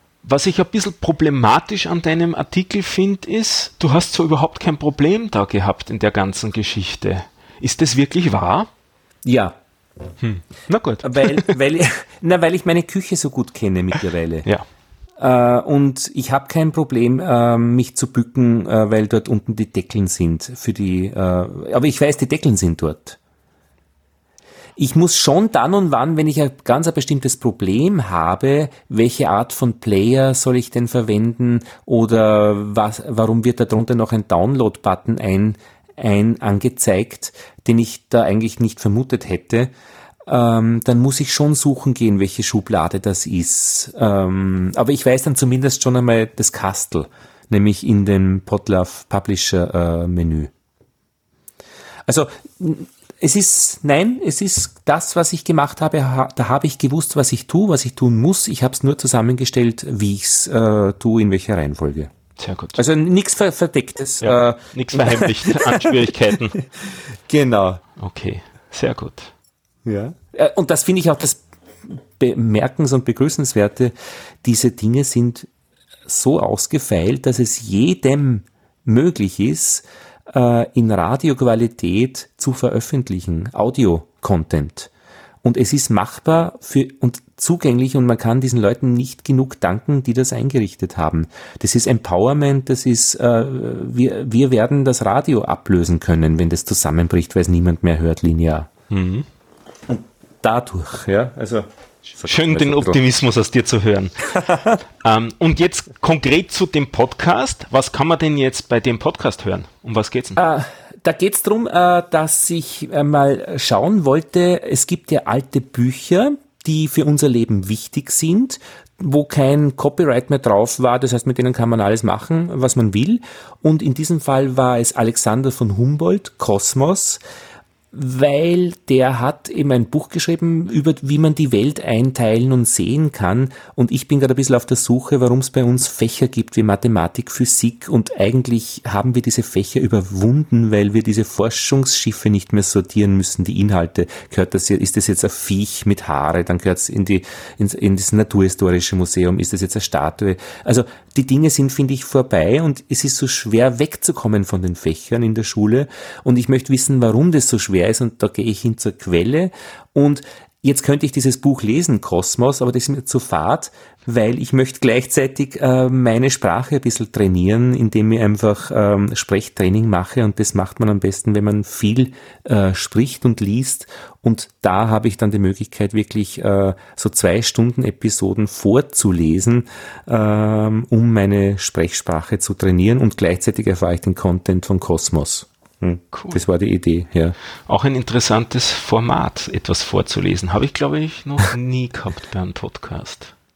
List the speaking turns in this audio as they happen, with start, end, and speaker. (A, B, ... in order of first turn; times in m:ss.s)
0:00.2-0:08.7 A
0:09.2-0:09.6 B
0:10.2-0:11.6 A
0:11.0-0:14.4 B
0:15.2-0:23.2 B
0:24.8-0:39.7 B
0:40.2-0:50.5 B
0:52.0-1:02.1 B
1:02.4-1:02.8 A
1:02.7-1:07.8 B
1:04.2-1:06.6 A
1:08.0-1:09.3 A
1:09.8-1:15.5 B
1:16.1-1:24.9 B
1:25.4-1:38.7 B
1:38.9-1:39.2 A
1:39.9-1:43.0 B
1:42.2-1:44.4 A
1:44.3-1:44.8 B
1:45.0-1:50.4 A
1:50.4-2:07.2 B
2:07.9-3:07.4 B
3:06.1-3:06.4 A
3:07.7-3:13.3 A